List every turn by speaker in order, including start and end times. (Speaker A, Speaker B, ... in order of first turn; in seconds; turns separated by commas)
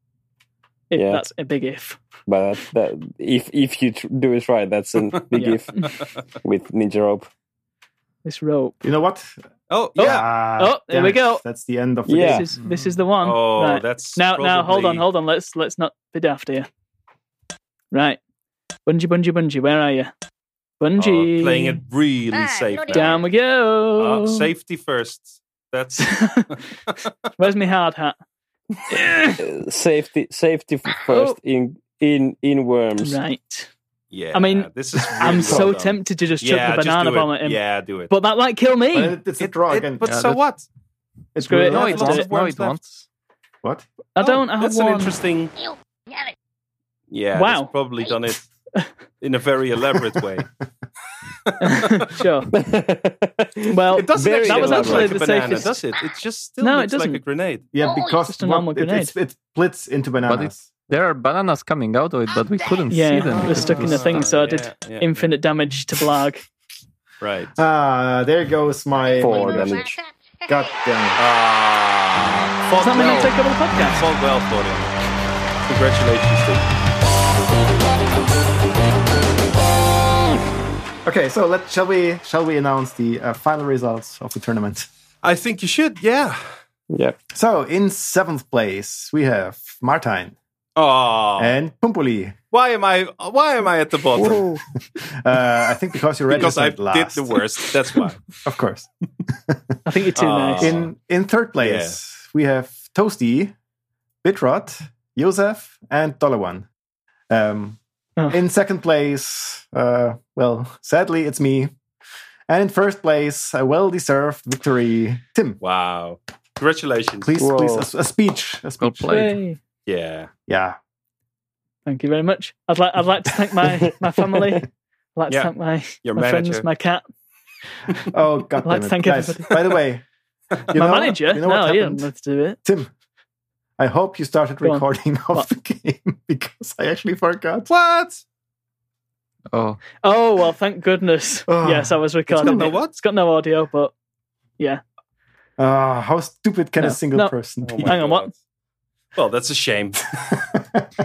Speaker A: 0.9-2.0, Speaker B: 0.9-1.3, Speaker B: 2.3-7.3, Speaker A: 5.3-5.9, Speaker A: 8.2-8.8, Speaker C: 8.8-9.3, Speaker D: 9.7-10.3, Speaker C: 10.0-12.5, Speaker A: 10.0-11.4, Speaker B: 12.1-12.5, Speaker A: 12.2-16.7, Speaker E: 12.6-13.0, Speaker D: 13.2-15.1, Speaker A: 17.9-18.2, Speaker A: 18.9-20.1, Speaker A: 20.8-21.8, Speaker D: 21.0-23.3, Speaker F: 22.3-23.3, Speaker A: 22.9-24.5, Speaker D: 24.0-27.1, Speaker A: 26.0-26.5, Speaker A: 27.4-28.2, Speaker A: 28.9-29.4, Speaker B: 29.4-33.2, Speaker A: 31.1-31.4, Speaker A: 33.0-33.7, Speaker D: 34.1-38.1, Speaker A: 34.3-39.2, Speaker C: 35.2-35.6, Speaker C: 38.9-40.1, Speaker D: 39.4-40.7, Speaker E: 40.0-40.4, Speaker C: 41.4-42.1, Speaker A: 41.5-42.3, Speaker E: 41.7-43.0, Speaker D: 41.7-42.8, Speaker C: 43.6-43.9, Speaker A: 44.2-45.1, Speaker D: 44.2-45.5, Speaker F: 45.6-46.3, Speaker D: 47.1-48.5, Speaker A: 47.3-47.7, Speaker D: 49.2-50.5, Speaker D: 51.5-52.1, Speaker A: 51.6-52.5, Speaker B: 52.5-55.2, Speaker A: 53.7-55.8, Speaker D: 54.0-57.7, Speaker A: 56.6-57.2, Speaker C: 57.7-60.7, Speaker F: 57.8-58.3, Speaker A: 58.3-59.1, Speaker E: 60.3-64.4, Speaker A: 62.9-66.5, Speaker D: 63.4-65.3, Speaker D: 67.2-67.5, Speaker C: 67.6-69.8, Speaker F: 69.0-70.8, Speaker B: 69.2-70.0, Speaker C: 70.5-71.2, Speaker D: 71.2-74.9, Speaker A: 72.8-74.0, Speaker D: 75.7-76.7, Speaker C: 81.0-84.9, Speaker D: 85.2-86.6, Speaker B: 86.9-87.2, Speaker C: 87.3-90.4, Speaker D: 90.8-91.6, Speaker C: 91.4-92.3, Speaker D: 92.5-94.5, Speaker B: 94.2-94.6, Speaker C: 94.2-94.4, Speaker C: 95.1-97.4, Speaker D: 96.3-98.4, Speaker C: 98.4-99.7, Speaker A: 99.8-100.7, Speaker D: 100.2-100.9, Speaker C: 100.6-103.5, Speaker D: 101.6-102.0, Speaker C: 104.2-106.7, Speaker C: 107.3-111.7, Speaker C: 112.5-115.6, Speaker D: 115.6-117.4, Speaker C: 117.2-119.2, Speaker B: 117.4-117.9, Speaker E: 118.8-119.4, Speaker A: 119.1-119.6, Speaker D: 119.9-120.3, Speaker C: 120.5-120.8, Speaker A: 121.9-127.1, Speaker B: 124.3-124.6, Speaker D: 126.0-126.7, Speaker C: 128.1-130.1, Speaker A: 128.7-129.6, Speaker C: 130.7-132.1, Speaker A: 130.7-132.6, Speaker C: 132.6-132.9, Speaker C: 133.8-137.7, Speaker A: 134.6-135.5, Speaker D: 137.7-138.2, Speaker E: 139.5-139.8, Speaker A: 140.0-143.9, Speaker C: 141.5-142.7, Speaker D: 142.3-142.9, Speaker C: 145.6-148.0, Speaker A: 146.8-148.3, Speaker D: 147.6-148.3, Speaker D: 149.2-150.2, Speaker C: 150.4-150.8